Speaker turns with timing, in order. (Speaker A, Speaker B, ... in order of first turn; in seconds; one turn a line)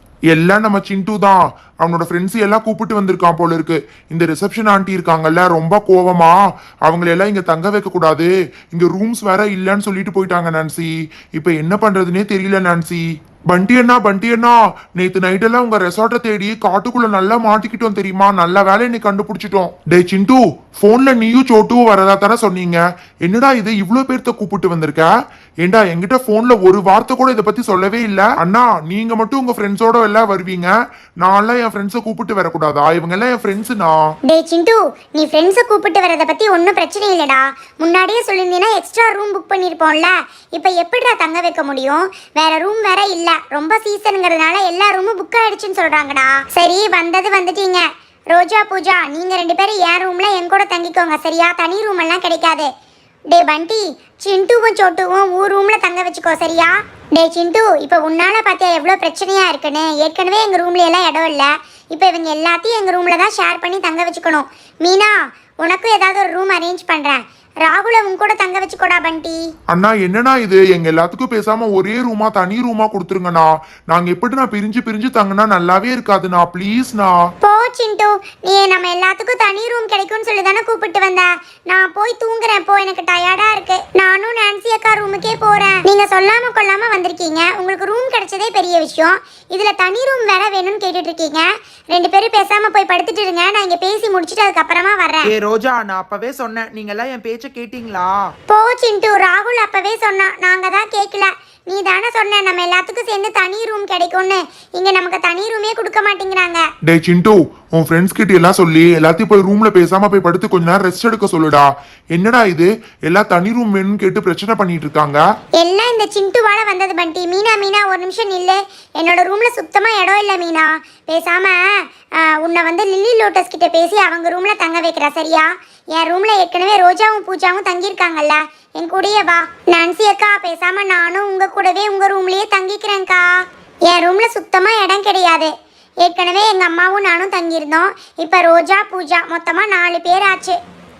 Speaker A: 0.3-25.1
Speaker A: 25.6-34.0
Speaker B: 34.3-52.7
Speaker B: 53.3-69.4
Speaker A: 69.7-77.2
Speaker B: 77.4-95.3
Speaker C: 95.3-98.1
Speaker B: 98.5-106.6
Speaker A: 106.8-115.2
Speaker B: 115.6-121.6
Speaker B: 122.2-133.3
Speaker B: 133.9-135.5
Speaker B: 136.0-140.6